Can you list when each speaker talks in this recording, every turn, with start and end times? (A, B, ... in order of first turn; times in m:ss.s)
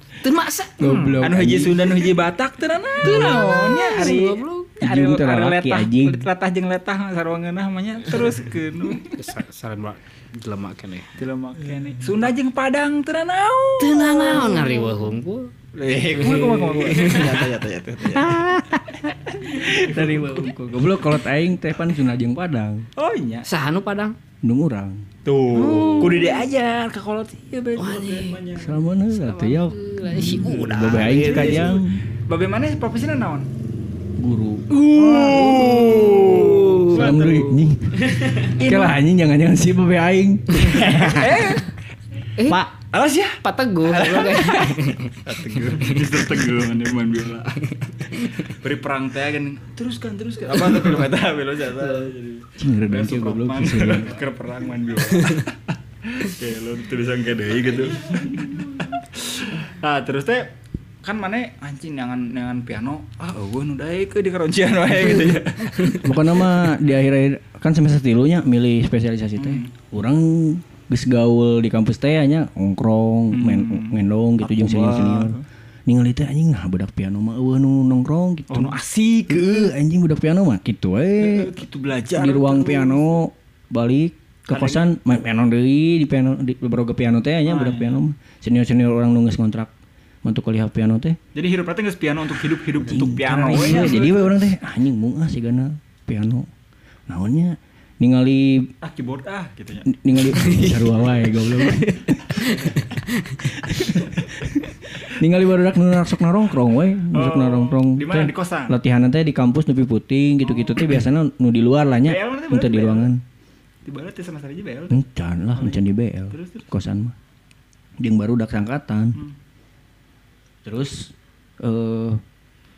0:00.2-0:01.2 A
0:00.8-0:02.0 B
0:01.2-0:09.1 C
0:03.0-0:04.8 A
0:04.8-0:06.3 B
0:09.0-0:11.1 A
0:11.2-0:14.9 C
0:13.8-0:15.5 A
0:15.8-0:18.4 C
0:16.1-0:17.4 A
0:18.1-0:22.9 B
0:19.5-0:20.5 C
0:23.0-0:23.5 C
0:23.4-0:24.2 A
0:24.4-0:25.1 B
0:25.2-0:28.8 C
0:25.5-0:26.5 A
0:27.8-0:28.4 A
0:28.5-0:32.0 B
0:29.1-0:31.7 A
0:30.2-0:33.5 C
0:34.2-0:41.4 B
0:34.7-0:37.6 C
0:35.0-0:37.0 A
0:38.1-0:38.5 A
0:38.5-0:39.0 C
0:40.6-0:41.7 C
0:42.4-0:42.7 A
0:42.9-1:06.1 C
0:43.4-0:45.2 A
0:48.1-0:48.5 A
0:52.6-0:54.2 B
0:55.1-0:55.5 A
1:05.0-1:18.8 B
1:09.4-1:09.7 C
1:13.3-1:15.4 C
1:18.5-1:19.7 C
1:19.3-1:21.5 B
1:21.2-1:23.2 C
1:22.2-1:29.7 B
1:24.5-1:24.9 C
1:27.4-1:28.0 C
1:30.2-1:31.2 B
1:31.4-1:34.4 C
1:32.8-1:36.5 B
1:37.1-1:38.7 B
1:38.8-1:39.9 C
1:39.9-1:42.2 B
1:40.2-1:44.0 A
1:43.7-1:53.2 B
1:47.1-1:48.8 C
1:50.4-1:51.0 C
1:52.0-1:53.1 C
1:53.8-1:55.0 C
1:54.9-1:57.2 B
1:55.6-1:56.7 C
1:58.0-1:59.2 B
2:00.6-2:02.2 B